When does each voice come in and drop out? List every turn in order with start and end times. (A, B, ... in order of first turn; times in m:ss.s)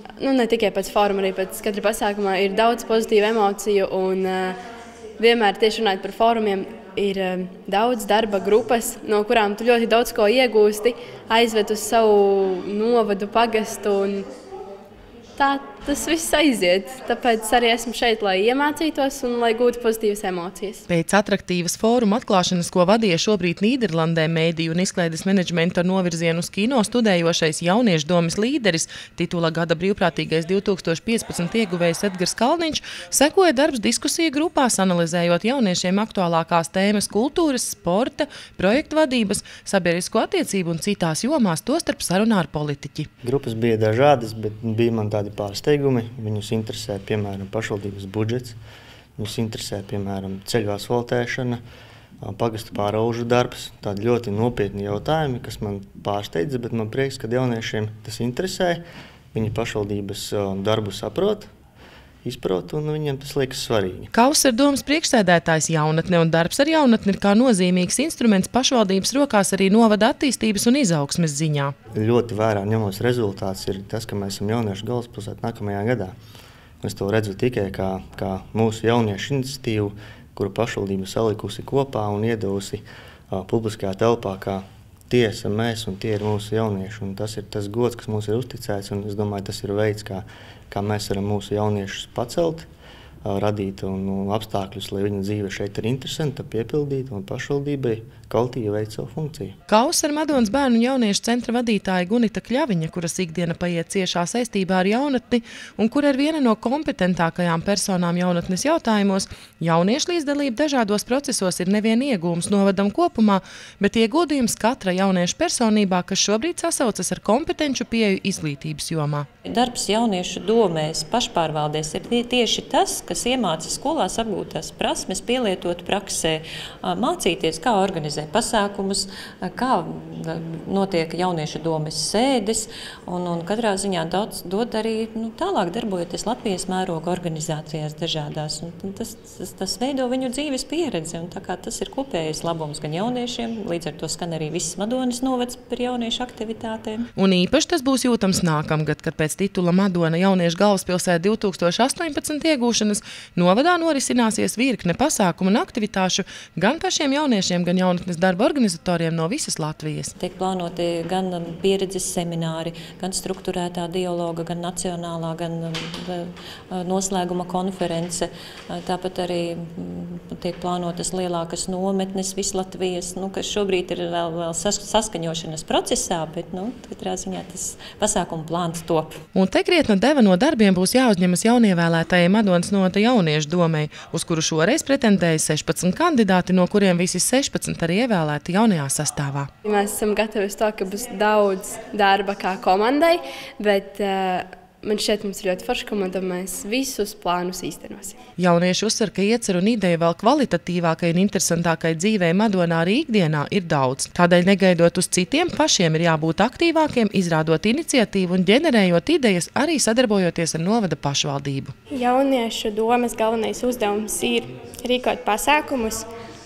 0:00.2-0:04.6 A
0:05.2-0:14.3 A
0:15.4-0:20.8 A
0:20.9-0:43.1 B
0:43.2-0:48.6 C
0:49.2-0:51.6 C
0:52.2-1:01.5 C
1:02.2-1:04.1 C
1:04.1-1:11.7 B
1:11.9-1:16.1 C
1:16.8-1:32.7 C
1:33.2-1:39.6 C
1:39.7-1:59.3 B
1:59.4-2:27.1 D
2:27.2-2:40.1 B
2:40.2-2:59.2 D
2:59.3-3:09.5 B
3:09.6-3:18.2 A
3:18.4-3:31.7 B
3:31.9-3:36.1 E